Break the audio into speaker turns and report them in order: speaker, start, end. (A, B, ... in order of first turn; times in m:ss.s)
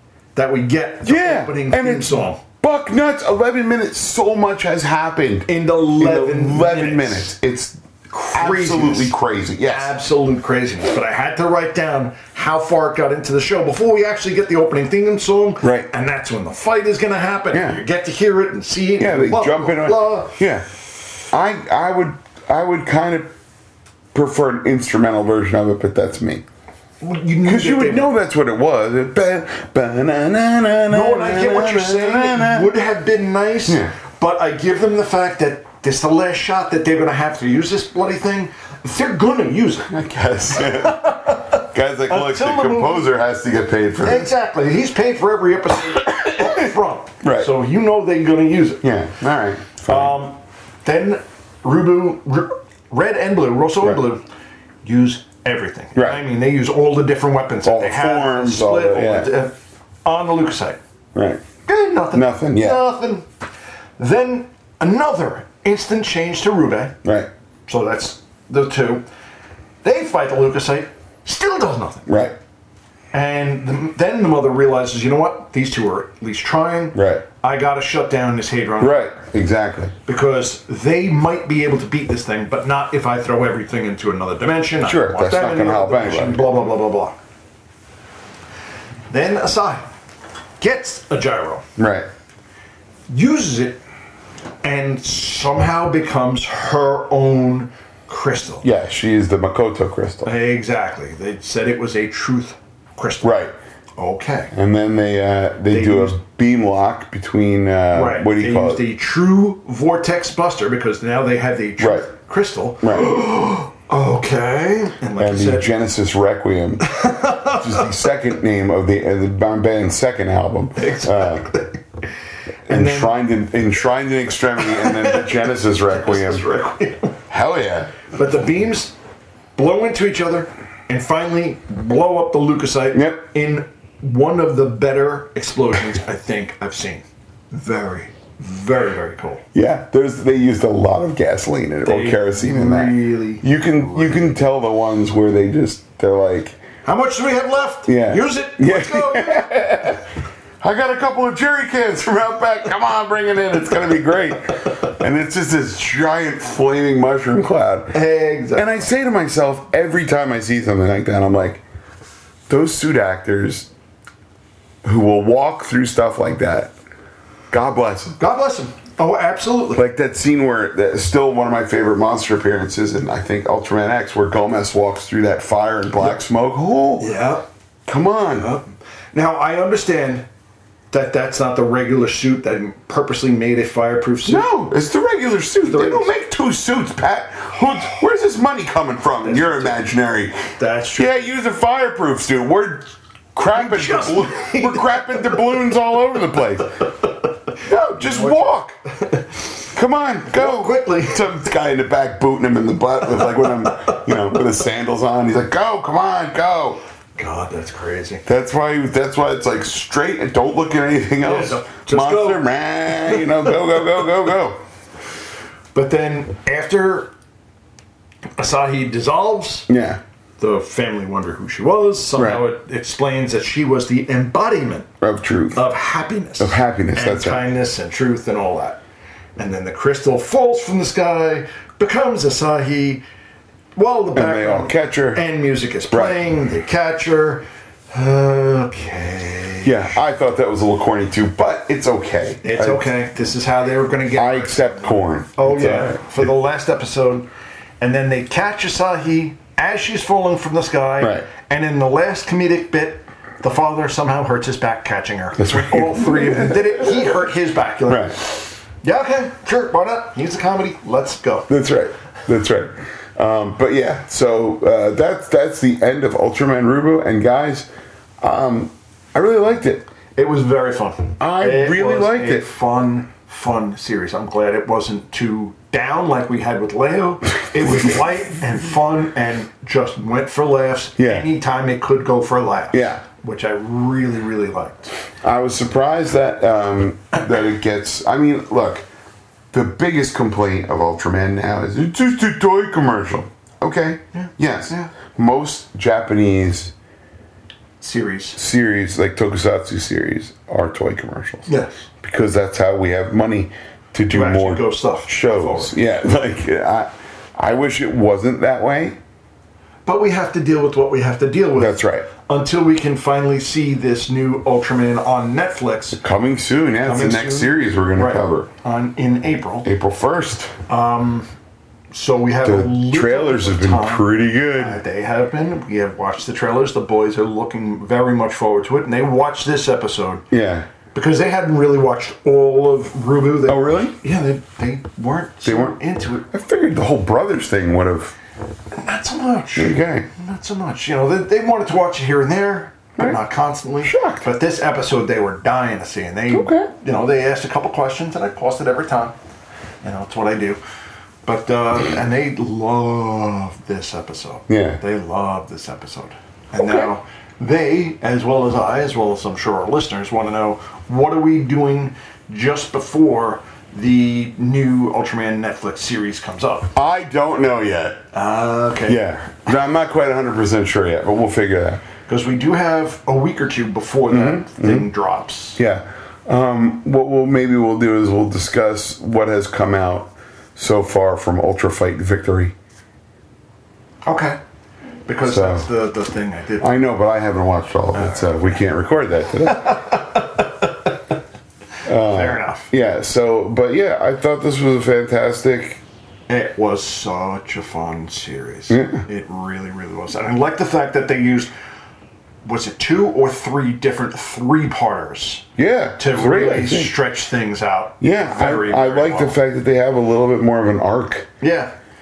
0:00.4-0:02.4 A
0:01.0-0:07.8 B
0:05.5-0:07.3 A
0:08.1-0:20.4 A
0:08.3-0:10.0 B
0:15.6-0:15.9 B
0:17.5-0:17.8 B
0:19.0-0:20.7 B
0:21.3-0:23.3 B
0:24.1-0:26.4 B
0:27.0-0:28.1 A
0:27.4-0:32.7 B
0:30.9-0:39.9 A
0:33.7-0:33.9 B
0:39.9-0:44.3 B
0:40.5-0:43.1 A
0:44.0-0:48.8 A
0:46.2-0:46.7 B
0:47.2-0:47.5 B
0:48.8-0:50.2 B
0:49.9-0:54.2 A
0:54.8-1:00.8 A
0:56.0-0:56.2 B
0:57.6-0:59.3 B
1:01.2-1:01.4 B
1:01.7-1:03.3 A
1:02.1-1:02.8 B
1:04.0-1:07.0 A
1:07.0-1:07.3 B
1:07.7-1:09.0 A
1:09.8-1:12.3 A
1:12.1-1:12.3 B
1:13.1-1:19.1 A
1:16.9-1:17.2 B
1:18.8-1:19.9 B
1:20.0-1:27.2 A
1:24.8-1:26.5 B
1:29.1-1:29.8 A
1:30.6-1:31.7 A
1:31.8-1:32.1 B
1:33.1-1:33.8 A
1:34.6-1:38.7 A
1:38.6-1:40.3 B
1:40.2-1:43.4 A
1:43.2-1:43.5 B
1:44.0-1:44.5 A
1:44.5-1:48.8 B
1:45.7-1:46.2 A
1:47.9-1:55.7 A
1:51.8-1:52.1 B
1:52.8-1:53.1 B
1:55.2-2:01.5 B
1:56.8-1:57.8 A
2:00.8-2:01.8 A
2:02.7-2:06.5 B
2:02.7-2:03.2 A
2:04.6-2:07.2 A
2:07.3-2:08.0 B
2:08.1-2:09.0 A
2:09.6-2:19.4 A
2:12.9-2:13.2 B
2:19.5-2:26.6 B
2:21.8-2:24.2 A
2:26.8-2:29.7 A
2:27.8-2:30.0 B
2:30.6-2:38.0 B
2:37.9-2:38.9 A
2:38.5-2:41.6 B
2:42.5-2:43.7 B
2:44.8-2:46.7 B
2:47.5-2:48.2 B
2:48.2-2:49.8 A
2:49.8-2:57.1 B
2:57.0-2:57.5 A
2:57.8-2:58.5 B
2:58.4-3:00.2 A
3:00.9-3:04.5 A
3:04.2-3:10.4 B
3:05.6-3:06.2 A
3:09.2-3:09.8 A
3:10.6-3:11.2 A
3:11.0-3:16.9 B
3:13.5-3:15.4 A
3:17.6-3:18.8 B
3:18.0-3:19.3 A
3:19.7-3:26.8 B
3:20.3-3:21.3 A
3:27.2-3:28.2 A
3:28.2-3:34.6 B
3:31.2-3:33.3 A
3:35.7-3:37.1 A
3:38.4-3:39.7 A
3:39.7-3:40.0 B
3:40.4-3:44.9 A
3:42.2-3:42.4 B
3:45.0-3:45.6 B
3:45.5-3:48.8 A
3:46.4-3:47.4 B
3:49.4-3:53.0 A
3:53.8-4:00.0 A
3:54.2-3:55.2 B
3:55.9-3:56.2 B
3:59.6-4:02.9 B
4:02.4-4:07.3 A
4:04.2-4:06.2 B
4:07.8-4:21.5 A
4:11.0-4:11.2 B
4:15.4-4:17.2 B
4:17.9-4:18.2 B
4:21.5-4:27.7 B
4:28.2-4:29.9 B
4:30.2-4:44.9 A
4:31.2-4:32.5 B
4:41.0-4:41.3 B
4:42.7-4:43.0 B
4:45.2-4:48.8 B
4:49.5-4:56.7 B
4:54.1-4:54.9 A
4:57.8-4:58.4 A
4:58.3-5:01.5 B
5:01.5-5:01.8 A
5:02.0-5:09.0 B
5:04.1-5:05.8 A
5:09.8-5:16.0 A
5:11.6-5:12.1 B
5:15.9-5:18.5 B
5:16.8-5:19.7 A
5:19.6-5:20.5 B
5:20.7-5:21.3 A
5:21.9-5:30.2 A
5:22.4-5:24.8 B
5:30.3-5:30.7 B
5:30.9-5:36.2 A
5:33.5-5:34.0 B
5:35.4-5:38.2 B
5:38.7-5:49.2 A
5:39.6-5:40.1 B
5:43.8-5:44.2 B
5:46.3-5:46.7 B
5:49.8-5:50.6 A
5:51.2-6:06.7 A
5:54.5-5:54.8 B
5:56.6-5:56.9 B
6:06.8-6:08.0 B
6:08.1-6:09.0 A
6:08.9-6:11.8 B
6:12.1-6:15.6 A
6:14.1-6:14.9 B
6:15.6-6:22.5 B
6:24.0-6:24.4 A
6:25.0-6:26.8 A
6:25.2-6:25.7 B
6:26.6-6:29.9 B
6:27.9-6:28.6 A
6:29.5-6:30.7 A
6:31.8-6:35.8 B
6:31.9-6:32.7 A
6:36.3-6:41.5 A
6:38.7-6:39.0 B
6:42.4-6:45.5 A
6:45.6-6:46.9 B
6:46.0-6:49.4 A
6:48.0-6:51.3 B
6:51.4-6:51.7 A